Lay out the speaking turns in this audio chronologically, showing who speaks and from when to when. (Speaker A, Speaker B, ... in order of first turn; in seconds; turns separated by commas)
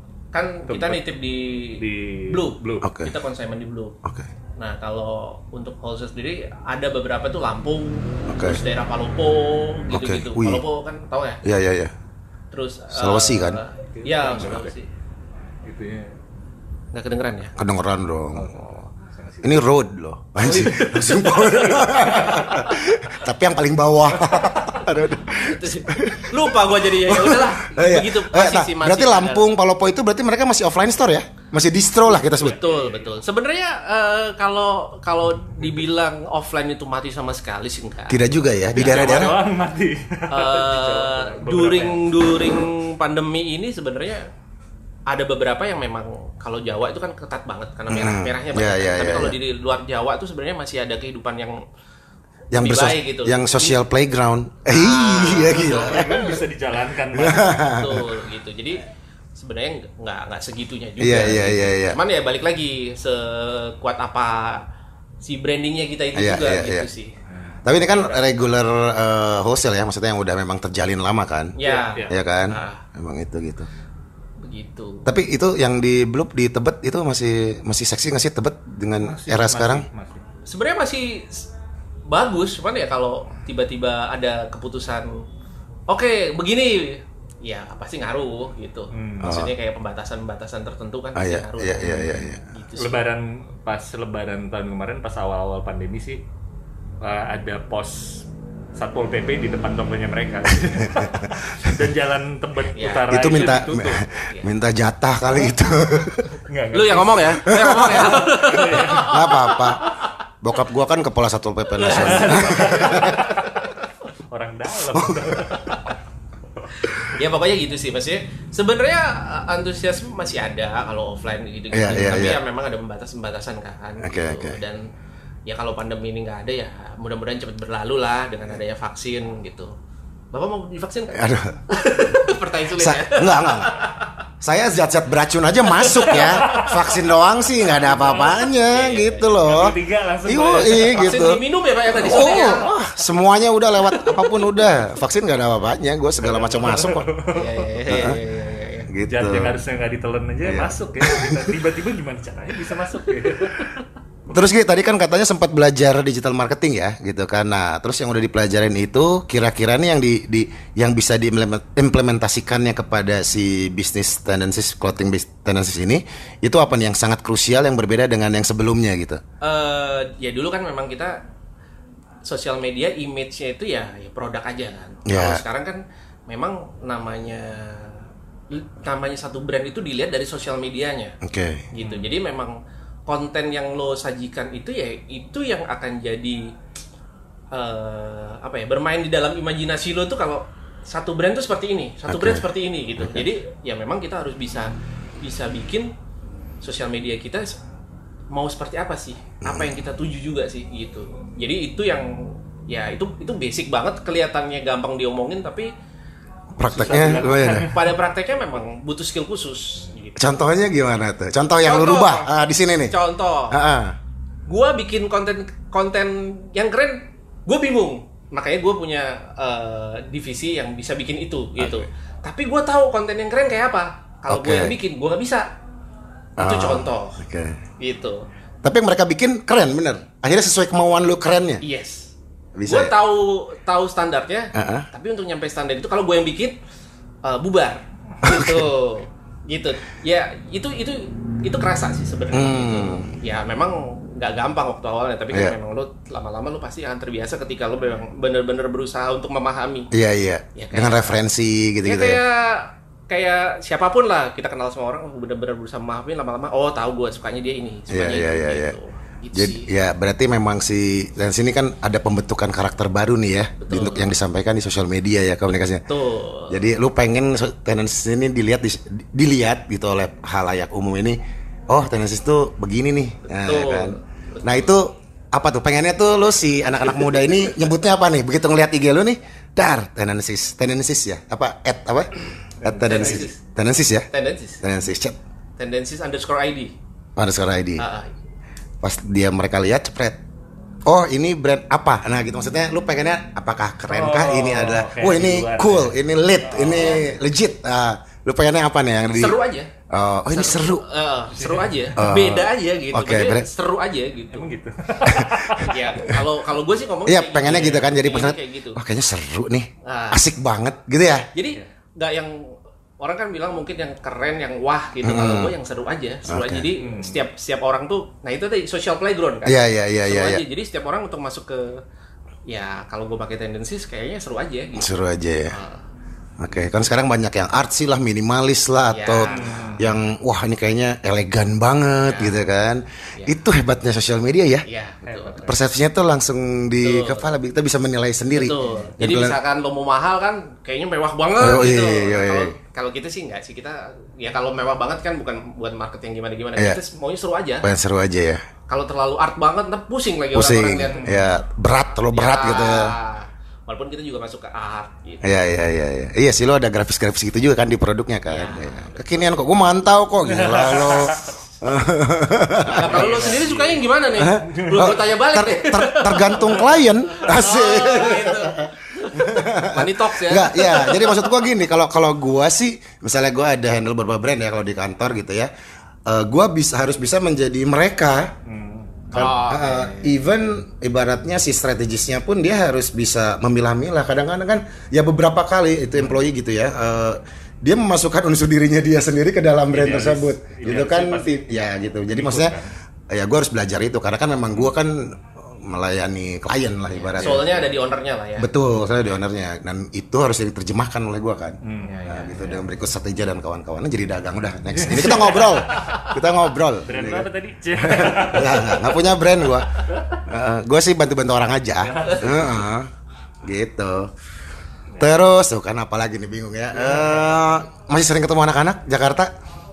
Speaker A: 0.3-3.9, Speaker B: 0.7-1.1, Speaker B: 1.8-2.9, Speaker C: 2.8-3.1, Speaker A: 4.6-11.4, Speaker C: 8.3-8.6, Speaker C: 9.9-10.6, Speaker C: 11.4-11.9, Speaker A: 12.5-14.9, Speaker C: 12.9-13.6, Speaker B: 13.9-14.7, Speaker B: 15.6-16.1, Speaker A: 16.9-17.5, Speaker C: 17.6-18.6, Speaker B: 18.3-19.6, Speaker C: 19.4-32.6, Speaker A: 20.4-22.6, Speaker B: 21.9-22.8, Speaker A: 25.2-29.5, Speaker A: 32.3-38.2, Speaker B: 32.4-33.1, Speaker C: 38.1-39.4, Speaker B: 38.7-42.1, Speaker A: 40.3-44.3, Speaker A: 45.1-51.6, Speaker C: 47.9-49.4, Speaker C: 52.5-56.3, Speaker A: 52.5-53.8, Speaker A: 54.7-56.2, Speaker B: 55.5-57.6, Speaker C: 57.1-58.1, Speaker A: 57.6-58.8, Speaker A: 59.4-64.6, Speaker C: 61.0-62.0, Speaker A: 65.2-67.1, Speaker C: 66.1-66.9, Speaker B: 67.3-67.6, Speaker C: 67.6-71.5, Speaker A: 71.6-72.8, Speaker B: 71.6-72.1, Speaker C: 72.1-73.7, Speaker A: 74.4-75.1, Speaker C: 75.0-79.9, Speaker B: 79.0-80.2, Speaker A: 80.5-81.5, Speaker A: 82.1-85.2, Speaker A: 85.9-93.0, Speaker B: 88.9-89.5, Speaker C: 89.2-89.5, Speaker C: 91.2-92.4, Speaker B: 91.8-92.2, Speaker B: 92.8-96.2, Speaker B: 97.0-104.0, Speaker C: 100.9-101.4, Speaker A: 102.7-104.5, Speaker C: 103.1-106.3, Speaker B: 106.4-109.5, Speaker A: 106.7-109.7, Speaker C: 107.4-108.2, Speaker C: 109.0-109.8, Speaker C: 110.4-113.2, Speaker A: 111.8-113.6, Speaker B: 111.9-113.7, Speaker B: 114.3-115.9, Speaker C: 114.9-115.8, Speaker A: 117.0-124.9, Speaker C: 121.7-122.4, Speaker C: 124.0-124.6, Speaker A: 125.5-129.7, Speaker A: 130.3-134.1, Speaker C: 131.1-131.6, Speaker C: 132.8-133.8, Speaker C: 134.4-141.4, Speaker A: 135.7-136.8, Speaker B: 136.1-136.7, Speaker A: 137.8-139.4, Speaker B: 137.9-138.4, Speaker B: 139.4-141.3, Speaker A: 140.7-142.7, Speaker C: 141.9-147.1, Speaker B: 146.2-148.1, Speaker A: 147.3-148.9, Speaker C: 147.9-148.2, Speaker C: 148.9-149.6, Speaker B: 149.1-153.9, Speaker C: 150.4-151.5, Speaker C: 154.3-169.2, Speaker A: 169.4-171.2, Speaker A: 172.2-181.2, Speaker C: 175.1-175.4, Speaker C: 181.2-181.7, Speaker A: 181.7-182.6, Speaker B: 181.8-182.1, Speaker A: 183.1-186.5, Speaker A: 187.5-195.9, Speaker C: 192.1-192.4, Speaker C: 193.0-193.3, Speaker A: 196.6-197.6, Speaker A: 198.3-205.7, Speaker C: 199.4-199.7, Speaker C: 206.6-207.7, Speaker B: 206.6-207.9, Speaker A: 207.6-210.2, Speaker C: 210.2-212.9, Speaker A: 211.6-212.3, Speaker A: 212.9-213.6, Speaker C: 213.5-213.9, Speaker A: 214.5-225.5, Speaker C: 221.6-221.9, Speaker C: 224.3-224.8, Speaker A: 226.4-227.2, Speaker C: 226.4-227.6, Speaker A: 227.8-228.2, Speaker C: 228.6-231.6, Speaker A: 231.6-232.1, Speaker C: 232.6-232.9, Speaker A: 232.6-236.6, Speaker C: 234.5-234.9, Speaker A: 237.2-249.9, Speaker C: 238.2-238.7, Speaker C: 242.3-243.1, Speaker C: 249.9-252.2, Speaker A: 250.5-251.2, Speaker A: 251.8-259.6, Speaker C: 257.9-258.8, Speaker C: 259.3-265.8, Speaker A: 263.6-264.1, Speaker A: 265.9-266.6, Speaker C: 266.5-271.2, Speaker C: 271.7-284.1, Speaker A: 273.3-274.7, Speaker B: 282.6-283.2, Speaker A: 282.8-283.4, Speaker A: 284.1-284.6, Speaker C: 284.6-285.2, Speaker A: 285.6-286.7, Speaker C: 287.2-287.8, Speaker A: 287.8-288.1, Speaker C: 288.8-290.2, Speaker C: 290.8-299.4, Speaker B: 293.9-297.1, Speaker A: 299.1-299.7, Speaker C: 299.9-300.8, Speaker A: 300.3-304.5, Speaker B: 301.4-301.9, Speaker C: 301.9-303.5, Speaker B: 304.3-305.8, Speaker C: 305.1-306.2, Speaker A: 305.6-308.8, Speaker C: 307.0-311.3, Speaker A: 309.8-310.2, Speaker A: 311.3-321.8, Speaker C: 315.0-315.5, Speaker C: 316.3-316.7, Speaker B: 316.8-317.2, Speaker C: 319.4-320.4, Speaker A: 322.5-325.9, Speaker C: 324.8-325.5, Speaker C: 326.4-334.6, Speaker A: 328.9-329.7, Speaker B: 329.3-329.9, Speaker A: 332.1-332.4, Speaker A: 334.6-335.5, Speaker B: 335.1-335.6, Speaker C: 335.4-339.4, Speaker A: 336.8-337.2, Speaker A: 338.3-347.7, Speaker C: 341.4-342.5, Speaker C: 347.6-348.4, Speaker A: 348.7-351.1, Speaker C: 350.3-352.9, Speaker B: 350.9-351.4, Speaker A: 352.1-355.4, Speaker C: 355.2-363.5, Speaker A: 358.3-358.9, Speaker B: 360.3-361.3, Speaker A: 362.7-371.3, Speaker B: 362.8-363.8, Speaker C: 364.1-375.5, Speaker B: 364.5-364.9, Speaker C: 376.1-378.3, Speaker B: 378.4-379.1, Speaker A: 379.1-380.1, Speaker C: 379.1-392.6, Speaker B: 389.7-391.5, Speaker B: 392.1-392.7, Speaker C: 393.1-397.6, Speaker A: 396.9-398.5, Speaker B: 397.2-397.6, Speaker C: 398.4-409.7, Speaker B: 401.6-402.0, Speaker A: 401.8-402.6, Speaker B: 404.8-406.1, Speaker B: 406.8-408.9, Speaker B: 409.9-410.2, Speaker C: 410.2-412.9, Speaker B: 411.8-412.6, Speaker C: 413.4-414.1, Speaker C: 415.0-419.3, Speaker B: 416.7-417.4